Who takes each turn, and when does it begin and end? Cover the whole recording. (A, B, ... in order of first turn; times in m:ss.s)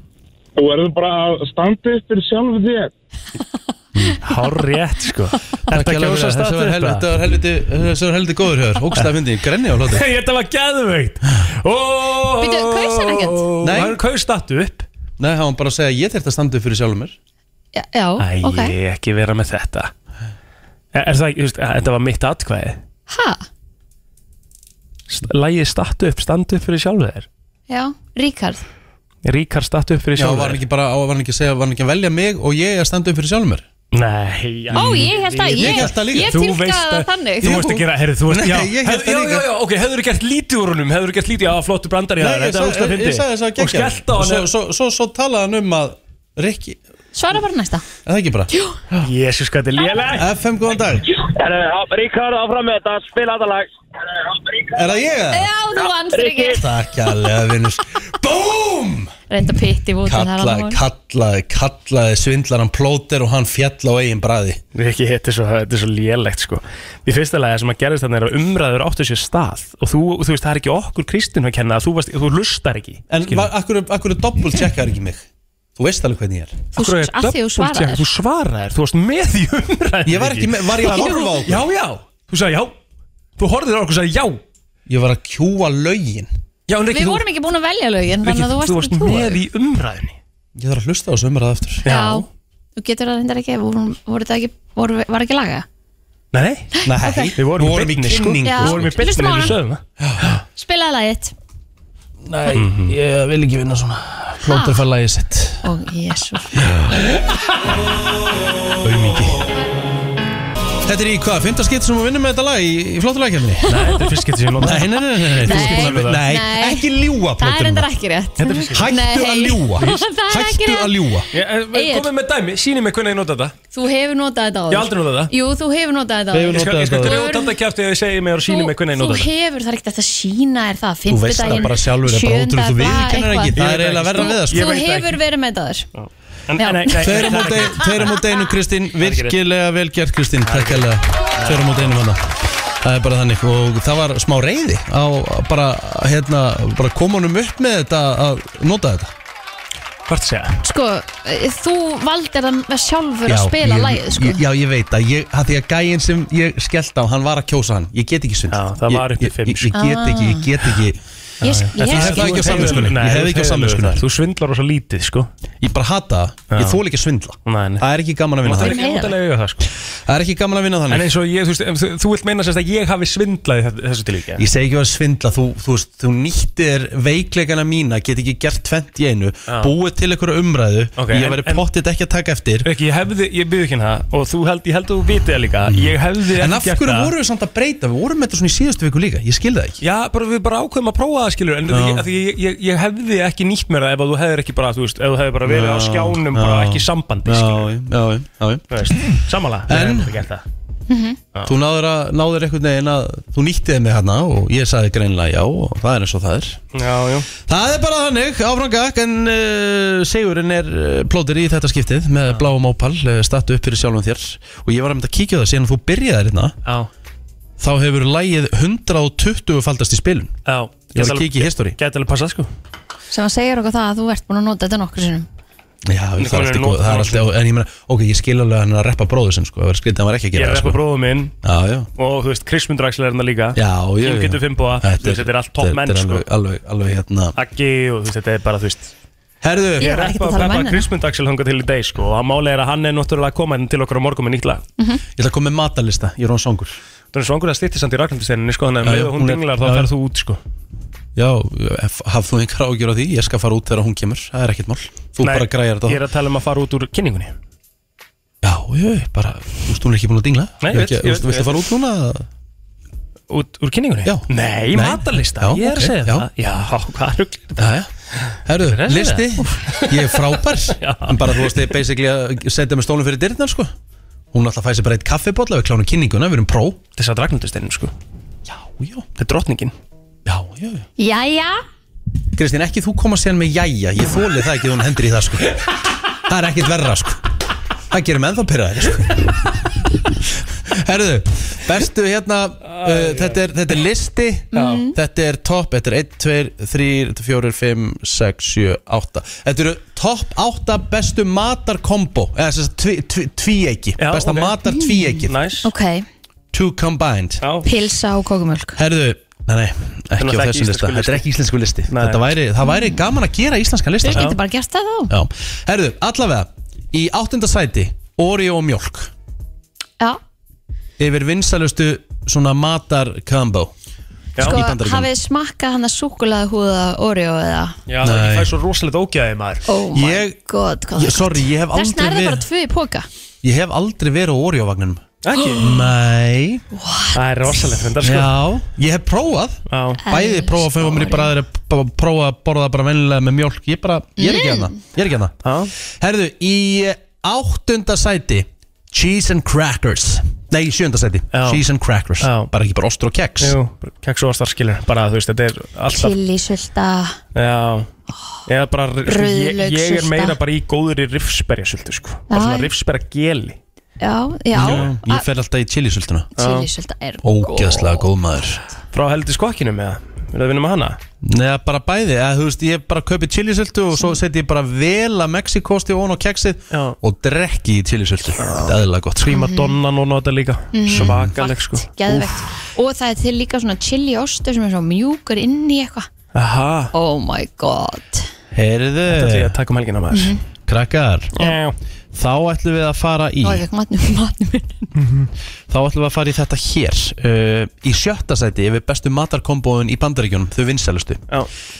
0:00.6-0:02.9 A
0:03.9-0:04.2 B
0:04.2-0:07.1 C
0:05.7-0:10.0 B
0:09.9-0:14.9 C
0:12.4-0:13.5 D
0:13.6-0:14.0 B
0:15.2-0:17.2 B
0:17.8-0:18.7 D
0:18.2-0:19.9 C
0:20.9-0:22.8 C
0:23.1-0:23.4 D
0:25.1-0:27.3 C
0:27.7-0:28.6 D
0:29.2-0:30.6 C
0:30.2-0:33.6 B
0:33.9-0:44.5 C
0:34.7-0:36.4 B
0:34.7-0:37.5 D
0:37.4-0:39.5 B
0:42.2-0:46.8 B
0:47.1-0:47.8 D
0:48.0-0:49.1 B
0:48.5-0:48.8 D
0:49.0-0:50.3 C
0:50.1-0:51.1 B
0:51.2-0:53.7 E
0:54.7-0:55.5 B
0:55.3-0:56.6 D
0:56.2-0:56.6 E
0:56.4-0:59.1 B
0:59.3-1:00.8 D
1:00.0-1:04.6 B
1:04.8-1:13.5 C
1:13.1-1:15.2 B
1:15.8-1:16.6 B
1:16.7-1:22.8 C
1:16.8-1:18.0 D
1:20.1-1:21.6 B
1:23.4-1:24.4 C
1:24.9-1:26.3 B
1:26.7-1:27.2 C
1:26.9-1:29.4 D
1:28.2-1:30.2 C
1:30.6-1:31.8 B
1:31.8-1:32.3 C
1:31.9-1:32.3 D
1:32.8-1:35.6 D
1:36.3-1:36.7 C
1:36.8-1:37.4 D
1:36.8-1:39.5 B
1:37.4-1:40.4 C
1:38.4-1:39.5 D
1:40.0-1:40.2 B
1:40.6-1:41.3 D
1:42.2-1:45.7 B
1:42.5-1:42.9 C
1:44.5-1:44.8 D
1:45.6-1:46.6 D
1:46.6-1:47.1 B
1:48.8-1:49.4 B
1:50.8-1:53.7 B
1:53.7-1:56.2 C
1:54.6-1:57.9 B
1:55.4-2:02.1 D
1:58.4-1:58.9 C
1:58.7-2:01.3 B
2:01.3-2:03.5 C
2:03.7-2:07.5 D
2:04.7-2:05.3 C
2:06.3-2:07.2 B
2:06.5-2:09.3 C
2:08.5-2:13.6 D
2:11.1-2:14.7 B
2:13.6-2:15.2 C
2:14.1-2:15.9 D
2:16.0-2:18.2 C
2:16.6-2:17.5 D
2:17.0-2:29.1 B
2:19.0-2:19.4 C
2:20.4-2:21.8 C
2:30.1-2:30.6 C
2:30.6-2:34.4 D
2:33.3-2:41.0 B
2:38.5-2:39.7 C
2:39.7-2:40.5 D
2:41.4-2:45.3 C
2:41.4-2:42.9 D
2:41.8-2:44.0 B
2:45.6-2:48.8 B
2:46.5-2:46.8 C
2:47.5-2:47.9 C
2:48.4-2:49.7 C
2:48.6-2:49.2 D
2:50.1-2:51.1 B
2:50.9-2:54.4 C
2:54.4-3:02.7 B
2:59.5-2:59.7 C
3:01.0-3:01.6 C
3:02.6-3:07.1 C
3:05.7-3:09.8 B
3:09.8-3:17.7 C
3:11.7-3:12.1 B
3:15.4-3:18.8 B
3:18.7-3:20.4 C
3:19.7-3:20.2 B
3:20.9-3:21.2 D
3:21.4-3:26.6 B
3:26.7-3:27.3 C
3:27.4-3:36.6 B
3:36.6-3:36.9 C
3:37.6-3:40.4 B
3:40.5-3:42.5 C
3:40.9-3:41.8 B
3:43.1-3:45.3 D
3:45.9-3:50.8 B
3:46.2-3:47.3 C
3:50.3-3:51.3 C
3:51.4-3:51.9 B
3:52.0-3:56.2 C
3:53.6-3:57.4 B
3:57.4-3:58.9 C
3:59.4-4:00.0 B
3:59.8-4:00.9 D
3:59.8-4:04.6 C
4:05.2-4:06.8 B
4:07.1-4:10.4 C
4:08.8-4:09.9 B
4:11.2-4:16.0 B
4:15.2-4:17.3 C
4:18.4-4:22.3 B
4:20.6-4:21.7 C
4:23.3-4:27.7 C
4:24.0-4:26.3 B
4:27.6-4:27.9 B
4:28.3-4:31.7 C
4:28.4-4:33.7 B
4:34.3-4:36.8 B
4:37.0-4:37.9 C
4:38.5-4:39.1 B
4:39.2-4:39.7 C
4:40.3-4:40.8 B
4:41.0-4:41.6 D
4:42.4-4:45.6 B
4:46.1-4:47.2 B
4:47.9-4:49.3 B
4:50.4-5:05.4 B
4:52.7-4:53.4 C
4:54.5-4:55.0 D
4:54.5-4:54.8 C
5:04.0-5:04.6 C
5:04.7-5:06.1 D
5:05.2-5:05.7 C
5:06.5-5:07.4 B
5:07.4-5:07.7 C
5:07.6-5:08.8 D
5:08.8-5:14.4 B
5:10.2-5:11.2 C
5:11.9-5:12.2 C
5:14.0-5:15.1 D
5:15.1-5:19.1 B
5:21.0-5:23.7 B
5:24.4-5:25.1 B
5:24.4-5:27.8 D
5:27.9-5:29.6 C
5:28.0-5:28.5 B
5:29.7-5:33.1 D
5:29.9-5:30.4 B
5:30.9-5:32.4 B
5:33.4-5:35.0 B
5:35.2-5:35.7 C
5:35.4-5:35.9 D
5:35.6-5:36.6 B
5:36.7-5:37.6 D
5:37.1-5:38.4 C
5:38.0-5:53.6 B
5:39.7-5:40.0 C
5:40.1-5:41.3 D
5:44.2-5:44.8 D
5:45.4-5:45.7 C
5:51.3-5:51.6 C
5:52.2-5:52.5 C
5:53.4-5:56.2 C
5:55.9-5:57.2 D
5:57.4-5:57.9 C
5:58.5-6:03.6 C
5:59.1-6:00.4 D
6:02.3-6:02.7 D
6:04.0-6:05.3 D
6:04.5-6:06.3 B
6:04.6-6:04.9 C
6:06.4-6:08.1 D
6:06.4-6:06.7 C
6:07.2-6:08.6 B
6:08.9-6:11.0 C
6:11.2-6:19.4 B
6:16.7-6:17.0 C
6:18.4-6:18.7 C
6:19.3-6:21.9 C
6:19.3-6:19.7 D
6:20.7-6:26.1 D
6:20.9-6:21.4 B
6:26.3-6:26.9 C
6:26.9-6:28.3 D
6:28.5-6:29.6 B
6:29.1-6:30.4 C
6:30.1-6:30.4 D
6:30.7-6:31.5 B
6:31.4-6:31.8 C
6:32.1-6:33.6 B
6:33.4-6:34.9 D
6:35.0-6:35.3 C
6:35.7-6:41.2 B